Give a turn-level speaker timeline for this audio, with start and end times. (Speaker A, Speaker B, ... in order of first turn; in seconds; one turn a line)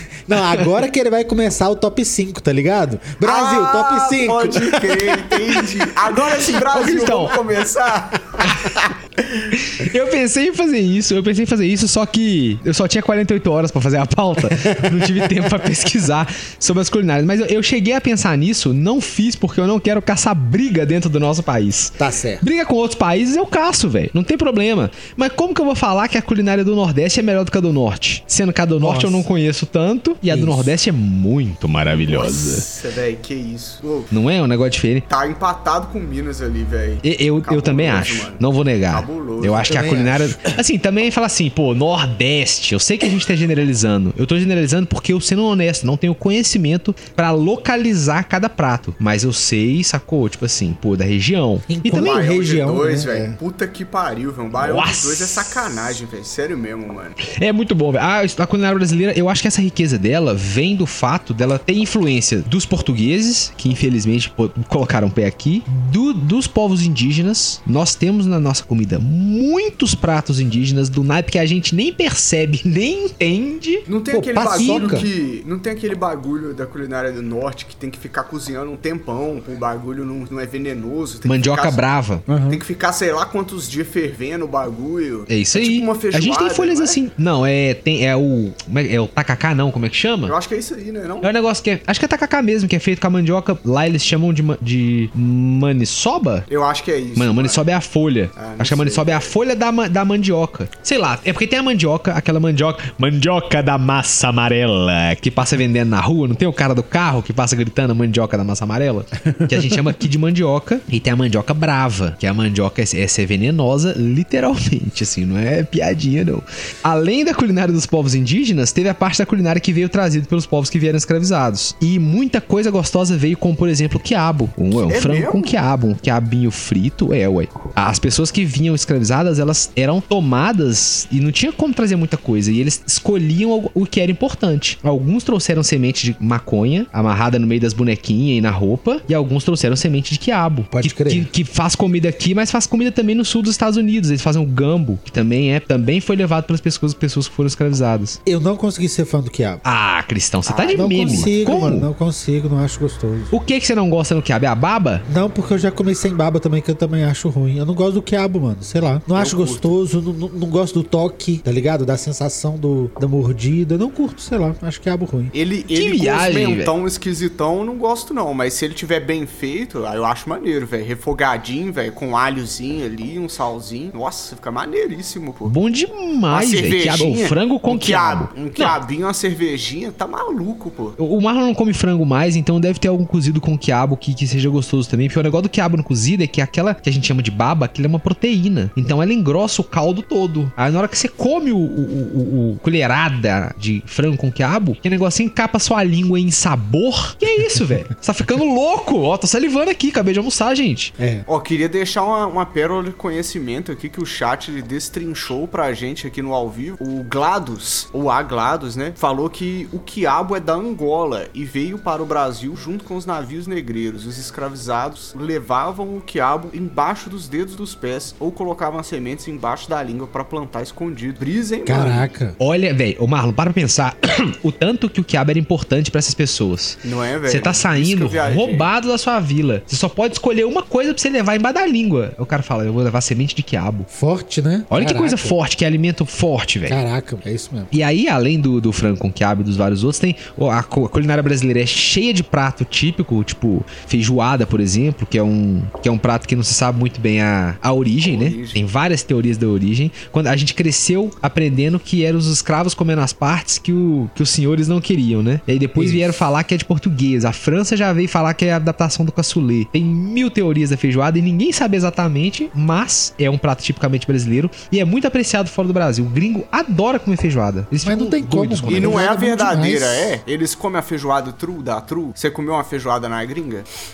Speaker A: 0.3-5.7
Speaker B: 3.2-9.5
Speaker C: 6.5-7.4
Speaker C: 9.5-32.6
Speaker A: 14.4-15.1
Speaker A: 22.0-22.4
Speaker A: 28.8-29.3
Speaker A: 30.3-30.7
Speaker B: 31.9-34.1
Speaker C: 34.1-35.0
Speaker B: 35.1-39.7
Speaker C: 37.0-52.1
Speaker A: 39.6-40.5
Speaker A: 51.7-53.4
Speaker B: 51.9-57.2
Speaker C: 54.6-55.9
Speaker C: 57.2-73.8
Speaker B: 73.9-81.8
Speaker A: 74.1-75.1
Speaker C: 74.6-75.0
Speaker C: 81.2-82.2
Speaker A: 82.3-82.6
Speaker B: 82.5-87.0
Speaker C: 85.3-90.3
Speaker B: 90.2-91.3
Speaker C: 91.2-96.5
Speaker B: 96.5-97.6
Speaker C: 97.2-148.2
Speaker B: 98.3-99.3
Speaker B: 124.8-125.5
Speaker A: 140.7-141.3
Speaker A: 148.2-149.6
Speaker C: 149.6-151.9
Speaker B: 150.4-151.3
Speaker A: 150.7-153.3
Speaker C: 153.3-155.0
Speaker A: 155.1-165.3
Speaker B: 159.1-159.7
Speaker B: 165.3-175.5
Speaker C: 165.7-166.7
Speaker C: 175.4-178.8
Speaker B: 176.3-181.0
Speaker C: 181.0-200.9
Speaker A: 201.0-201.2
Speaker B: 201.3-222.1
Speaker A: 221.7-222.4
Speaker C: 222.4-233.9
Speaker B: 226.8-228.7
Speaker A: 233.9-235.4
Speaker C: 234.7-236.8
Speaker A: 236.7-237.7
Speaker C: 237.7-269.1
Speaker B: 248.0-248.6
Speaker A: 255.8-256.2
Speaker A: 267.8-270.1
Speaker B: 268.7-273.6